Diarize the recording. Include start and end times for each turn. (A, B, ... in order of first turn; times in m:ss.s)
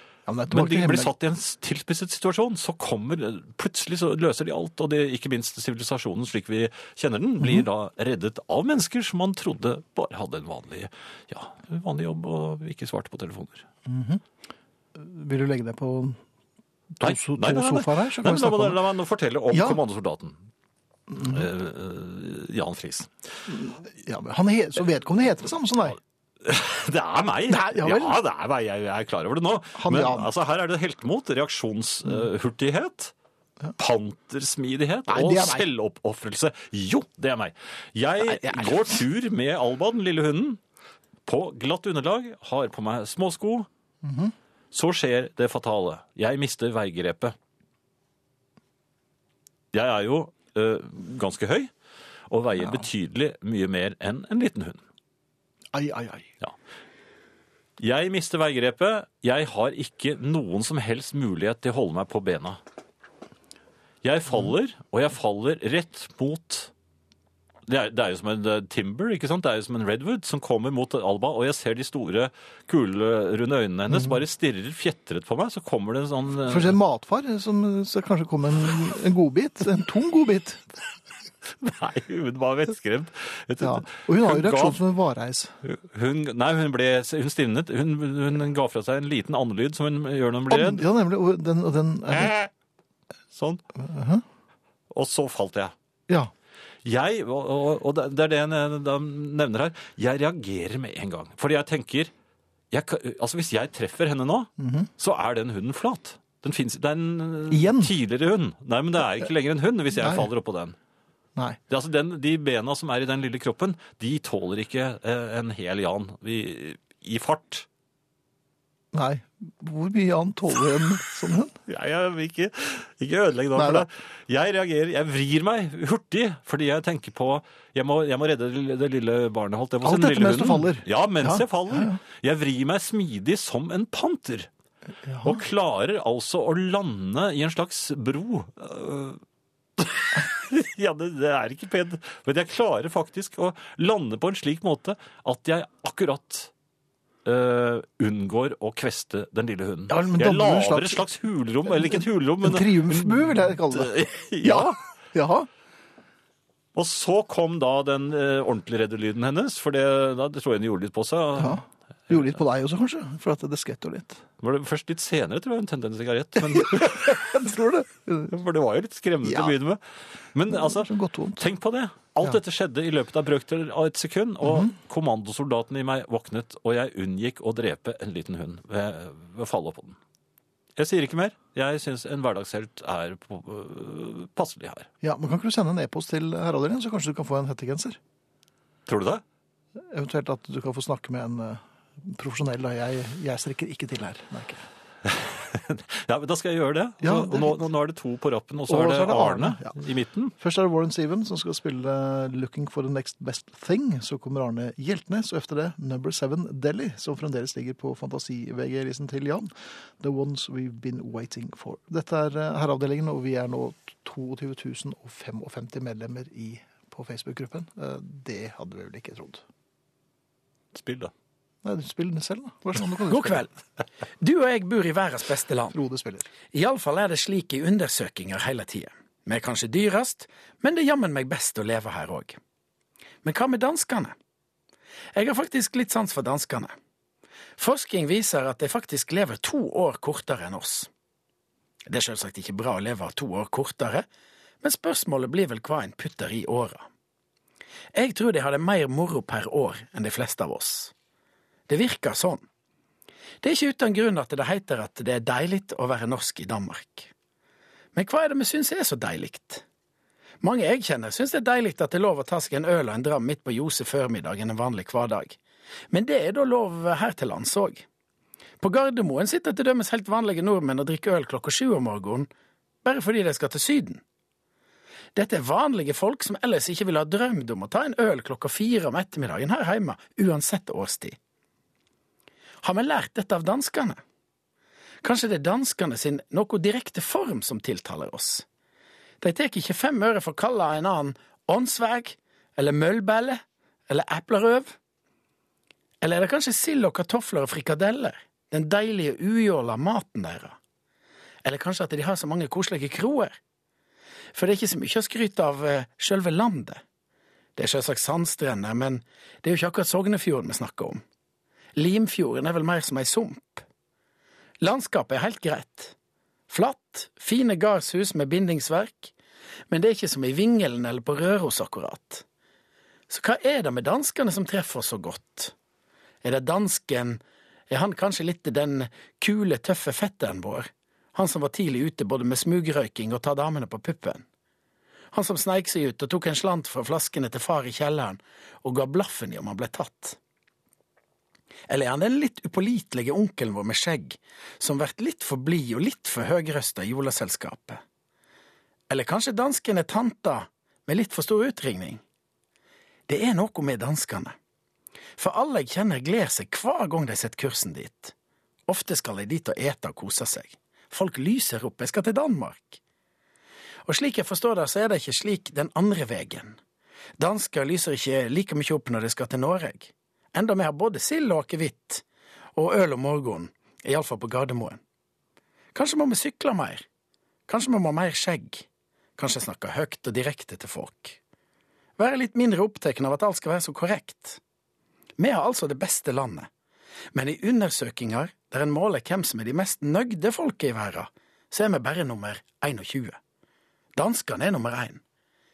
0:00.3-0:01.1 A
0:00.5-0:13.7 B
0:13.9-0:14.2 A
0:15.0-0:16.2 A
0:17.0-0:18.8 A
0:17.0-0:20.4 B
0:19.5-0:19.8 A
0:21.1-0:21.5 A
0:21.2-0:23.1 B
0:23.5-0:26.0 A
0:26.4-0:33.1 B
0:27.5-0:28.2 A
0:29.7-0:30.3 A
0:33.8-0:40.6 B
0:35.1-0:35.7 A
0:38.4-0:38.8 A
0:41.3-0:43.7 B
0:44.0-0:44.3 A
0:44.7-0:47.4 B
0:49.7-0:51.7 B
0:52.3-0:54.8 B
0:55.7-0:56.3 A
0:57.8-1:02.6 B
1:04.0-1:06.7 B
1:07.7-1:16.8 B
1:13.9-1:14.2 A
1:16.4-1:20.7 A
1:21.5-1:24.8 B
1:23.6-1:25.6 A
1:25.6-1:30.9 B
1:30.5-1:32.4 A
1:32.1-1:32.5 B
1:33.3-1:33.6 B
1:33.8-1:34.2 A
1:34.9-1:35.7 B
1:36.8-1:42.1 B
1:42.7-1:50.8 B
1:44.6-1:44.9 A
1:47.5-1:47.9 A
1:50.0-1:50.3 A
1:51.7-1:57.7 B
1:58.9-2:01.6 A
2:01.7-2:14.5 B
2:03.6-2:03.9 A
2:09.8-2:12.0 A
2:15.0-2:15.4 A
2:15.2-2:19.2 B
2:19.8-2:26.5 B
2:27.2-2:34.8 B
2:29.9-2:31.1 A
2:31.7-2:35.5 A
2:36.7-2:41.6 B
2:41.4-2:44.2 A
2:44.4-2:47.4 B
2:46.4-2:48.3 A
2:48.3-2:49.8 B
2:49.2-2:49.5 A
2:50.3-3:00.0 B
2:50.5-2:51.4 A
2:54.5-2:54.7 A
3:00.8-3:04.9 B
3:05.0-3:08.0 A
3:08.9-3:09.2 B
3:09.8-3:14.7 A
3:15.0-3:20.3 B
3:17.0-3:17.7 A
3:18.7-3:19.8 A
3:20.4-3:39.4 A
3:40.7-3:41.1 B
3:41.6-3:43.5 A
3:43.1-3:43.5 C
3:44.2-3:45.8 C
3:45.7-3:46.3 A
3:46.5-3:52.4 C
3:53.2-3:54.2 C
3:55.1-3:56.7 C
3:57.6-4:00.9 C
4:01.9-4:04.1 C
4:04.6-4:06.8 C
4:07.9-4:10.9 C
4:11.7-4:12.4 C
4:13.4-4:17.1 C
4:17.9-4:19.6 C
4:20.4-4:25.4 C
4:25.9-4:27.9 C
4:28.6-4:32.3 C
4:32.8-4:34.0 C
4:35.2-4:41.2 C
4:42.6-4:44.0 C
4:45.0-4:48.4 C
4:49.2-4:54.8 C
4:56.0-5:00.6 C
5:01.4-5:03.4 C
5:04.3-5:06.8 C
5:07.6-5:11.0 C
5:11.8-5:13.6 C
5:14.6-5:16.0 C
5:16.5-5:19.1 C
5:19.7-5:22.2 C
5:23.1-5:25.5 C
5:26.2-5:34.2 C
5:35.1-5:40.2 C
5:41.7-5:47.8 C
5:48.9-5:52.0 C
5:53.1-5:54.4 C
5:55.2-5:58.1 C
5:58.7-6:02.8 C
6:03.9-6:06.6 C
6:07.2-6:12.0 C
6:12.6-6:14.8 C
6:15.7-6:16.9 C
6:17.5-6:21.2 C
6:22.0-6:24.4 C
6:25.2-6:26.5 C
6:27.1-6:33.2 C
6:34.0-6:35.0 C